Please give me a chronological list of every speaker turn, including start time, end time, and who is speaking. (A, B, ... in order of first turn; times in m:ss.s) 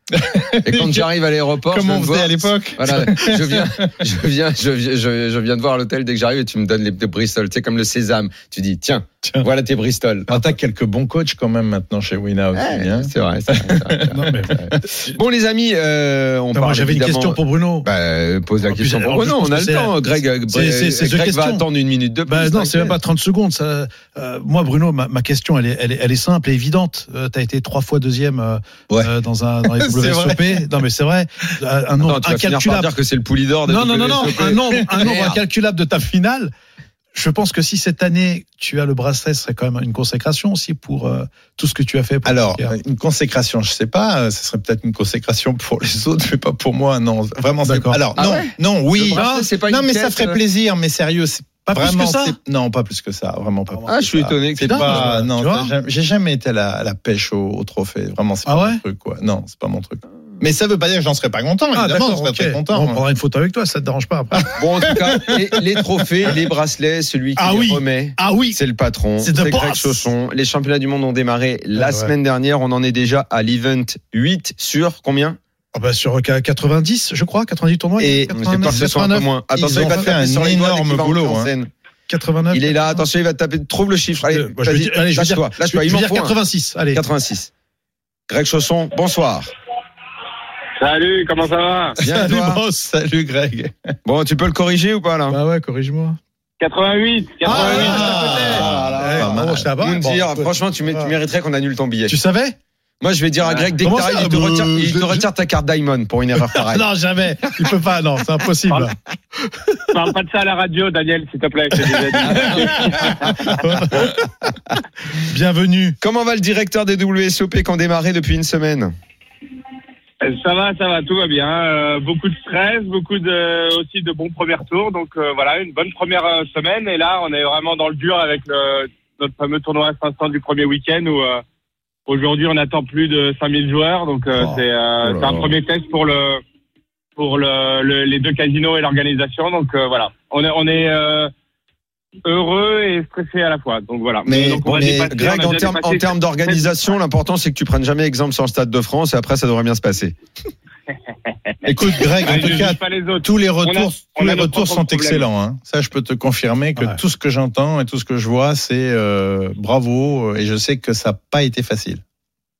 0:00.1-0:01.1 A
0:00.6-0:10.3 B
0:01.7-0:03.9 A
0:10.3-0:14.7 A
0:12.5-0:23.0 B
0:14.1-0:14.6 C
0:16.5-0:17.9 C
0:18.6-0:21.6 C
0:22.3-0:32.9 C
0:29.9-0:30.5 A
0:30.0-0:30.3 B
0:32.0-0:35.4 B
0:33.7-0:36.5 C
0:37.1-0:42.7 C
0:42.2-1:03.0 A
0:47.6-0:48.0 C
0:48.2-0:50.4 B
0:49.1-0:49.5 C
0:51.7-0:52.4 C
0:53.9-0:55.1 B
0:54.6-0:55.7 C
0:58.5-0:58.8 C
1:01.8-1:04.9 C
1:04.6-1:15.4 B
1:07.4-1:08.6 C
1:09.2-1:10.1 C
1:11.8-1:12.1 C
1:15.7-1:20.1 C
1:18.0-1:19.0 A
1:18.3-1:21.7 B
1:19.5-1:21.5 A
1:22.1-1:23.0 C
1:22.5-1:26.4 B
1:24.2-1:27.0 C
1:26.9-1:27.5 B
1:28.3-1:29.5 B
1:30.8-1:32.0 D
1:32.0-1:32.6 B
1:32.0-1:32.8 C
1:32.7-1:33.7 A
1:34.0-1:35.4 B
1:35.3-1:36.2 C
1:36.6-1:38.4 D
1:37.4-1:41.2 C
1:37.5-1:39.7 A
1:37.6-1:42.2 B
1:42.1-1:42.6 C
1:43.0-1:46.8 B
1:43.8-1:45.3 C
1:46.5-1:49.9 C
1:49.9-1:53.5 D
1:52.2-1:54.3 C
1:55.1-1:56.0 C
1:56.0-1:58.9 B
2:00.2-2:11.4 D
2:12.1-2:16.4 D
2:15.0-2:15.5 B
2:17.2-2:21.3 D
2:22.2-2:26.8 D
2:24.3-2:25.1 A
2:24.7-2:30.2 B
2:31.6-2:42.0 A
2:32.2-2:35.2 D